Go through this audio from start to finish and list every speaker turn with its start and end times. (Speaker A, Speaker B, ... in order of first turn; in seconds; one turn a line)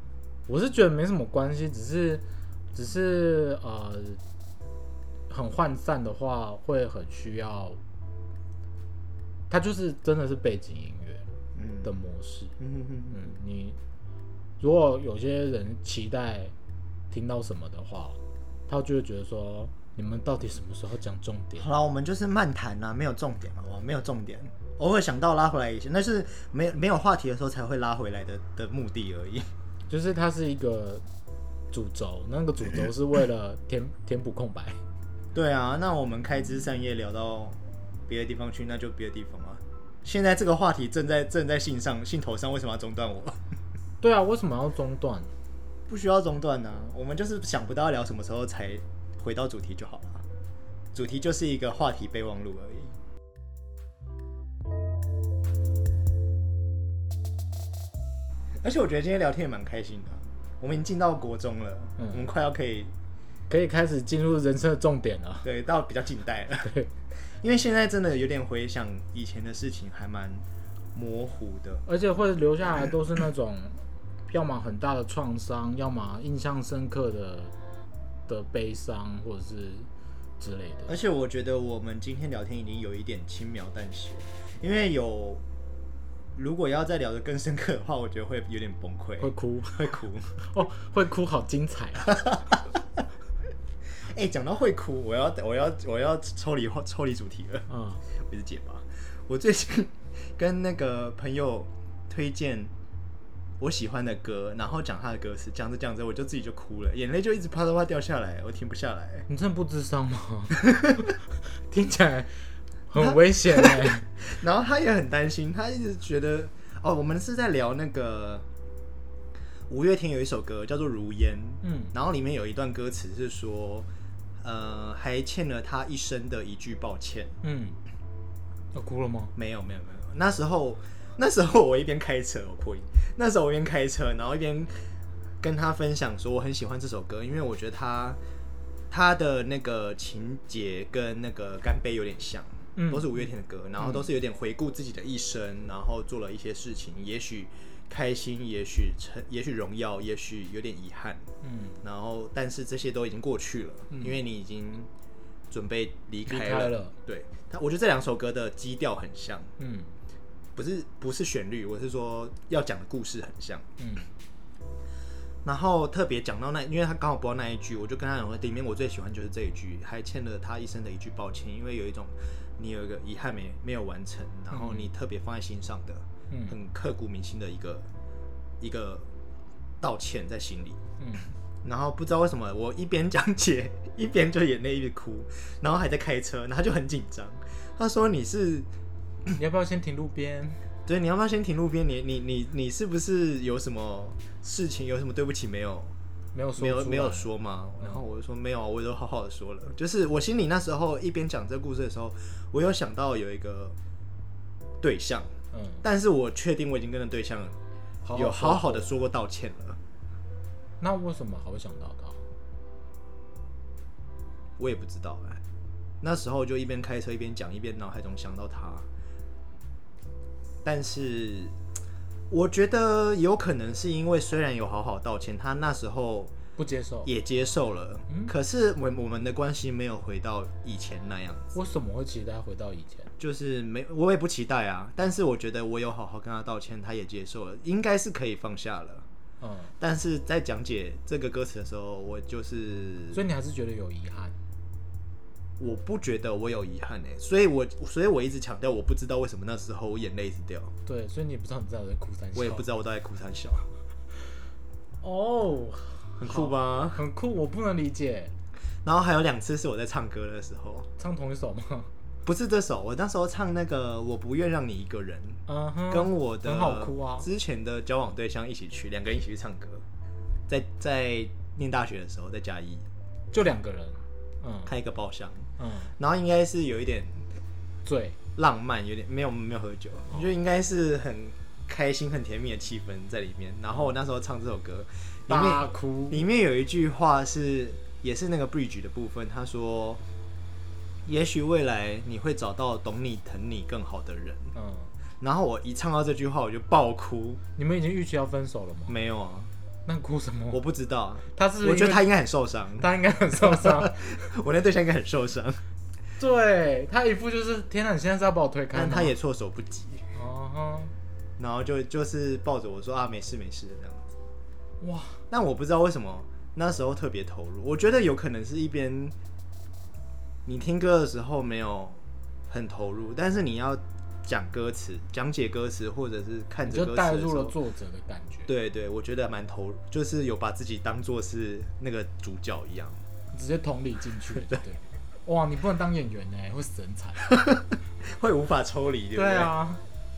Speaker A: 0.5-4.2
Speaker A: 5.3-7.8
Speaker A: 9.5-11.2
Speaker B: 11.6-11.9
Speaker A: 11.8-12.6
Speaker B: 12.6-13.3
Speaker A: 13.1-13.8
Speaker A: 14.6-16.5
Speaker A: 17.1-21.7
Speaker B: 21.6-29.5
Speaker A: 29.9-31.0
Speaker A: 31.7-34.8
Speaker B: 35.3-43.4
Speaker A: 44.0-45.3
Speaker B: 45.9-50.2
Speaker B: 50.9-53.0
Speaker B: 58.6-62.9
Speaker A: 62.0-62.3
Speaker A: 63.5-65.5
Speaker B: 65.4-66.7
Speaker A: 66.6-66.9
Speaker B: 67.4-71.8
Speaker A: 71.9-77.5
Speaker A: 78.3-79.9
Speaker A: 80.4-80.9
Speaker B: 80.9-85.4
Speaker B: 86.3-90.4
Speaker A: 89.2-92.3
Speaker B: 92.3-92.6
Speaker B: 94.0-102.7
Speaker A: 97.7-98.0
Speaker B: 103.6-109.3
Speaker A: 109.3-111.2
Speaker B: 110.7-111.0
Speaker A: 111.7-114.1
Speaker B: 113.0-118.5
Speaker B: 119.7-123.9
Speaker A: 121.6-121.9
Speaker B: 124.4-127.4
Speaker A: 127.4-127.8
Speaker A: 128.7-129.3
Speaker B: 129.3-134.8
Speaker B: 135.4-138.2
Speaker B: 138.9-151.3
Speaker A: 142.8-143.1
Speaker A: 143.8-144.1
Speaker A: 151.4-151.8
Speaker B: 151.8-154.9
Speaker A: 153.9-154.2
Speaker B: 155.5-159.5
Speaker A: 156.3-156.9
Speaker A: 159.6-159.9
Speaker B: 160.6-163.7
Speaker A: 163.8-164.1
Speaker B: 165.4-177.9
Speaker A: 174.5-174.9
Speaker A: 176.3-176.6
Speaker B: 178.6-179.1
Speaker B: 179.8-180.8
Speaker A: 181.0-181.3
Speaker B: 181.6-188.7
Speaker A: 189.3-190.6
Speaker B: 190.9-195.9
Speaker A: 196.3-198.0
Speaker B: 196.6-203.8
Speaker B: 204.8-207.6
Speaker A: 205.5-205.8
Speaker A: 208.0-208.9
Speaker B: 208.1-209.8
Speaker A: 210.8-212.2
Speaker B: 214.6-215.4
Speaker B: 216.0-218.9
Speaker B: 220.6-221.6
Speaker B: 222.3-226.3
Speaker A: 226.6-227.1
Speaker B: 227.1-231.6
Speaker A: 231.6-233.1
Speaker B: 233.2-239.1
Speaker A: 239.4-239.7
Speaker B: 239.8-243.2
Speaker A: 243.1-244.4
Speaker B: 245.6-250.7
Speaker A: 250.9-252.7
Speaker B: 252.3-253.7
Speaker A: 255.0-258.4
Speaker B: 256.2-257.0
Speaker B: 258.8-260.9
Speaker A: 261.0-261.9
Speaker B: 262.2-269.8
Speaker A: 265.5-267.3
Speaker B: 270.5-272.9
Speaker A: 273.3-274.7
Speaker B: 274.7-277.3
Speaker A: 275.6-275.9
Speaker A: 277.9-278.2
Speaker B: 278.4-290.0
Speaker A: 285.3-286.2
Speaker B: 291.1-294.5
Speaker A: 294.6-294.9
Speaker B: 295.2-297.4
Speaker A: 297.6-298.9
Speaker B: 298.9-299.5
Speaker A: 299.9-300.6
Speaker B: 300.5-305.6
Speaker A: 301.3-302.1
Speaker A: 302.8-304.2
Speaker A: 306.2-309.1
Speaker B: 308.7-310.1
Speaker A: 310.1-310.9
Speaker B: 311.4-314.1
Speaker A: 314.8-315.2
Speaker B: 315.3-319.1
Speaker B: 320.4-327.6
Speaker A: 326.6-328.5
Speaker B: 328.5-333.0
Speaker A: 333.3-337.3
Speaker B: 337.3-339.5
Speaker A: 339.1-339.8